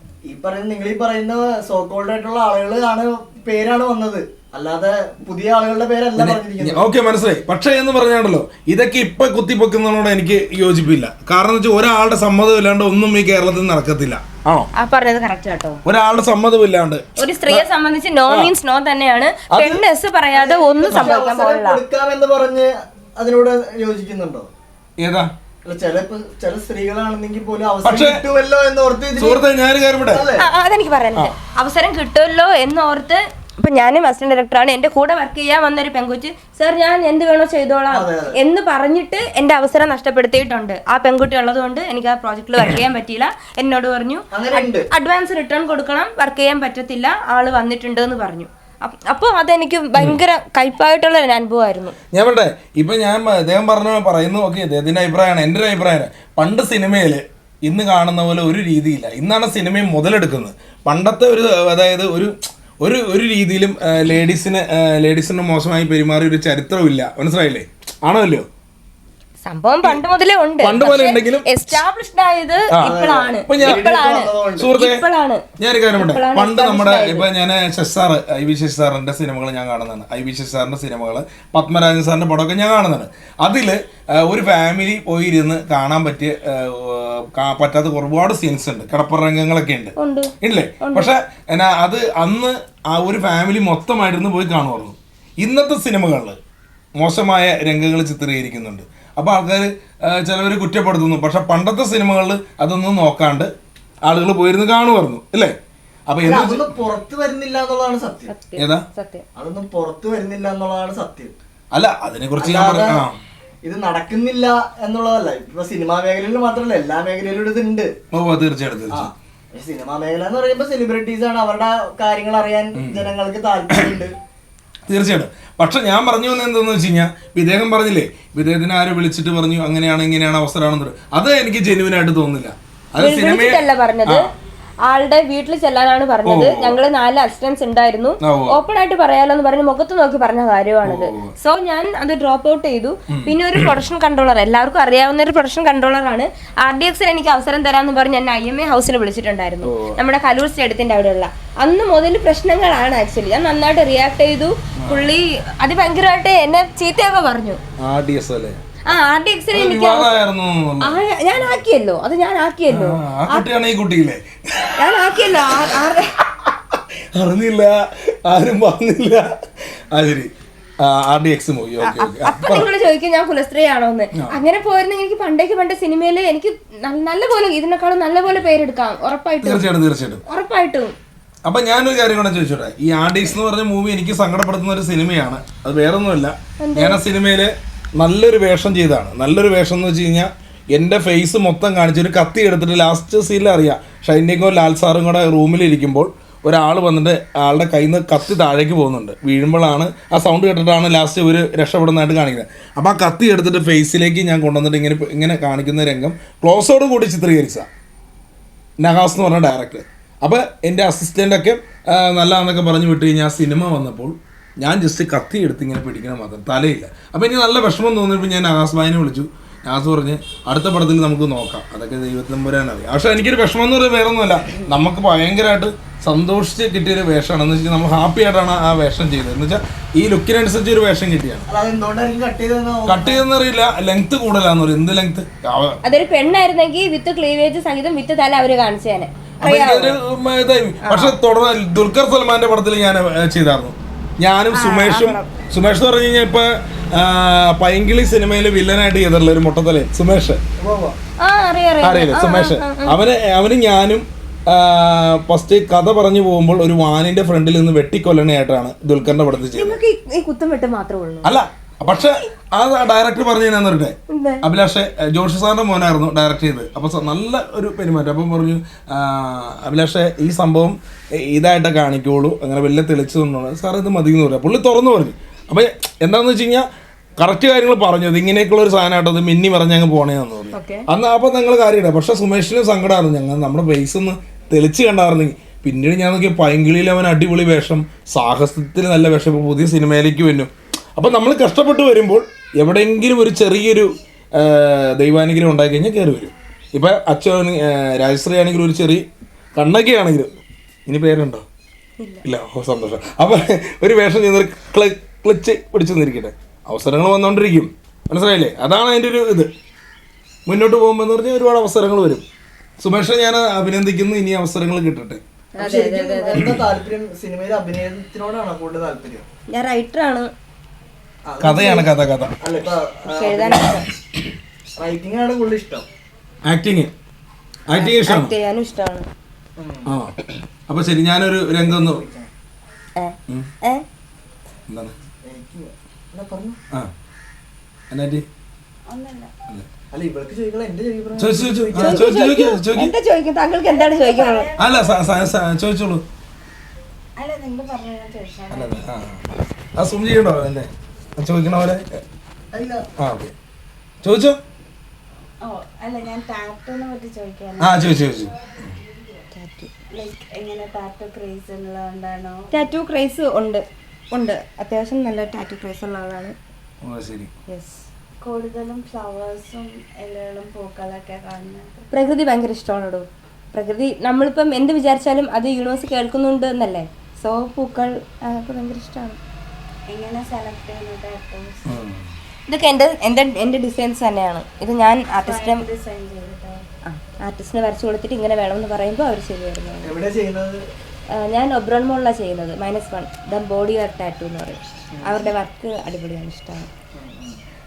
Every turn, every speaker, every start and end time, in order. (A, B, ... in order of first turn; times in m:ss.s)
0:00.3-0:06.9 A
0:06.2-0:14.7 B
0:14.8-0:15.8 C
0:15.8-0:17.7 B
0:17.2-0:21.8 C
0:18.3-0:18.5 B
0:19.5-0:19.8 B
0:20.3-0:24.5 A
0:25.0-0:25.3 B
0:25.6-0:29.4 A
0:27.8-0:28.2 B
0:29.2-0:30.3 B
0:30.1-0:30.5 A
0:30.4-0:52.0 C
0:37.9-0:38.4 A
0:44.3-0:44.9 A
0:52.1-1:08.4 B
1:09.4-1:15.4 C
1:10.6-1:11.5 B
1:12.7-1:13.9 B
1:12.8-1:14.7 A
1:14.6-1:15.0 B
1:15.6-1:36.4 B
1:16.0-1:17.3 C
1:30.0-1:31.1 C
1:37.0-1:43.5 B
1:44.0-1:45.6 B
1:46.1-1:46.7 B
1:46.2-1:48.3 A
1:48.3-1:49.2 C
1:48.6-1:48.8 B
1:49.4-1:51.3 A
1:51.7-1:53.2 B
1:52.4-1:53.0 A
1:53.6-1:57.9 A
1:58.1-1:59.1 B
1:58.9-2:04.2 A
2:02.8-2:03.1 B
2:04.9-2:14.3 B
2:13.0-2:14.3 C
2:14.8-2:37.6 C
2:16.2-2:16.8 B
2:18.2-2:18.6 B
2:20.8-2:21.4 B
2:23.1-2:23.8 B
2:29.6-2:30.0 B
2:34.8-2:35.1 B
2:37.8-2:38.6 B
2:38.9-2:40.1 C
2:39.5-2:41.6 B
2:40.8-2:43.5 C
2:42.7-2:52.7 B
2:44.8-2:46.2 C
2:51.8-2:59.7 C
2:59.4-3:00.2 B
3:00.3-3:00.9 C
3:01.4-3:27.7 B
3:06.6-3:07.0 C
3:28.8-3:51.4 B
3:51.5-3:53.2 A
3:52.9-3:55.8 B
3:55.8-4:00.0 C
3:59.4-4:10.4 B
4:00.8-4:01.2 C
4:04.5-4:05.3 C
4:10.6-4:11.0 A
4:11.2-4:12.9 C
4:11.8-4:19.8 B
4:19.5-4:21.3 C
4:21.2-4:36.7 B
4:24.1-4:24.4 C
4:37.2-4:59.0 B
4:40.5-4:40.9 C
4:59.6-5:01.4 B
5:02.0-5:02.2 C
5:02.2-5:09.5 B
5:10.5-5:12.2 B
5:12.8-5:15.2 B
5:15.6-5:16.5 C
5:15.6-5:19.2 A
5:19.5-5:20.3 C
5:21.2-5:21.9 A
5:21.4-5:22.4 B
5:22.4-5:23.8 A
5:23.1-5:23.9 C
5:24.8-5:25.8 A
5:26.5-5:26.9 B
5:27.7-5:28.3 B
5:27.7-5:29.0 C
5:29.6-5:29.9 A
5:29.9-5:30.1 B
5:30.7-5:32.0 B
5:31.6-5:32.3 A
5:33.0-5:33.8 C
5:35.2-5:36.6 A
5:37.9-5:38.2 B
5:38.9-5:39.3 D
5:39.9-5:42.0 A
5:41.2-5:43.0 B
5:41.8-5:44.5 C
5:43.7-5:45.3 D
5:44.6-5:46.0 B
5:47.2-5:48.9 D
5:48.5-5:49.2 B
5:49.8-5:52.0 B
5:52.5-5:52.8 A
5:53.0-5:53.3 B
5:54.0-5:54.4 B
5:55.4-5:57.8 D
5:57.6-5:58.7 B
5:59.3-5:59.7 C
5:59.9-6:02.6 D
6:02.5-6:06.4 C
6:06.8-6:07.3 B
6:07.5-6:07.8 C
6:08.2-6:11.8 D
6:11.9-6:19.2 C
6:19.9-6:21.7 D
6:21.7-6:22.1 B
6:22.5-6:25.6 C
6:25.2-6:26.7 D
6:26.8-6:29.9 C
6:29.8-6:30.6 A
6:31.2-6:36.7 C
6:34.9-6:35.3 A
6:37.0-6:37.4 A